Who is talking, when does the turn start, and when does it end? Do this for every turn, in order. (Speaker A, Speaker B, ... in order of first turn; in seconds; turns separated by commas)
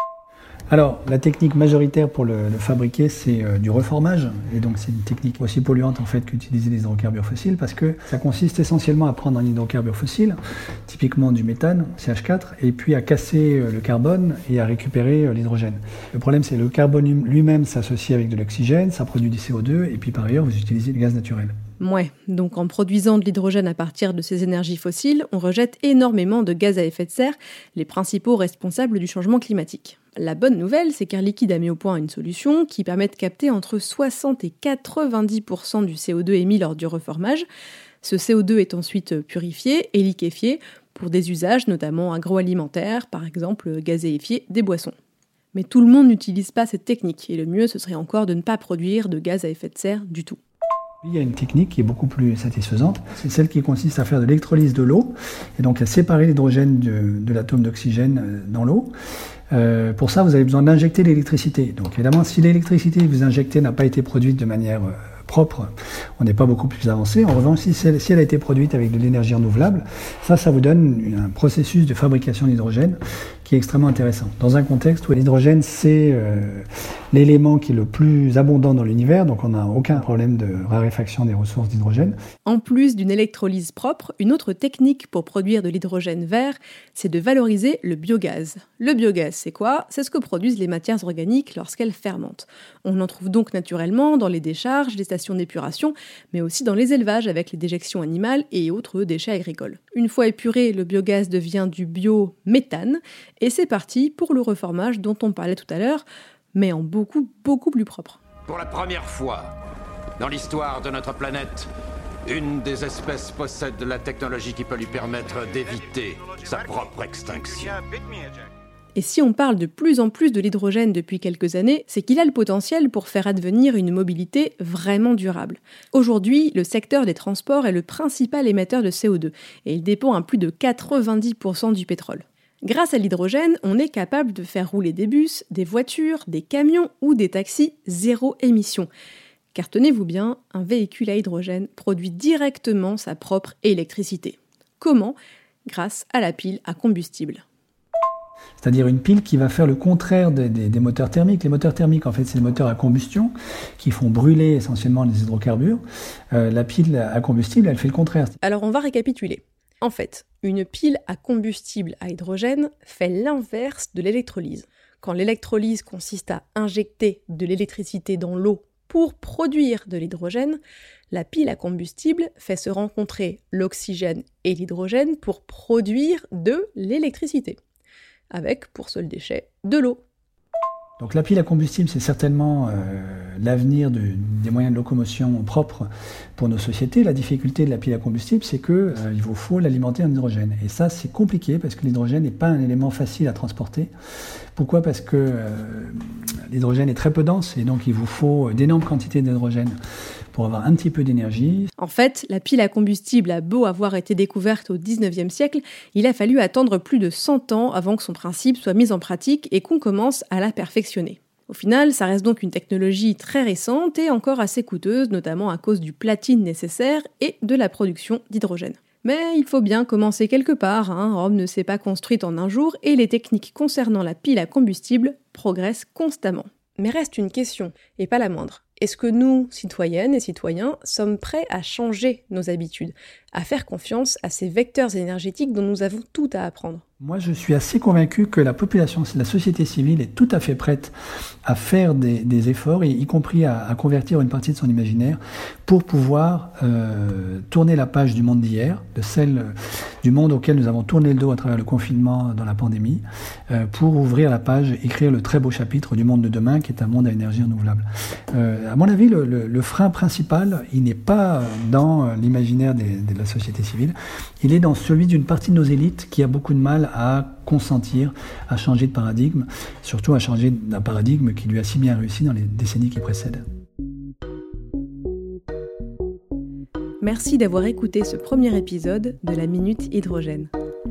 Speaker A: 0.7-21.6, Speaker B: 21.8-37.4, Speaker B: 38.0-44.9, Speaker B: 45.5-50.4, Speaker A: 51.0-58.9, Speaker A: 59.5-82.2, Speaker B: 82.4-108.2, Speaker C: 108.5-109.5, Speaker C: 110.2-111.7, Speaker C: 112.2-118.0, Speaker B: 118.9-138.9, Speaker B: 139.5-145.2, Speaker B: 145.7-147.4, Speaker A: 148.6-155.8, Speaker A: 156.3-158.3, Speaker B: 158.4-177.6, Speaker B: 178.3-180.0, Speaker A: 181.0-193.9, Speaker A: 194.6-199.8, Speaker A: 200.3-201.7, Speaker B: 201.8-236.8, Speaker A: 237.0-240.9, Speaker A: 241.4-273.4, Speaker B: 277.0-280.5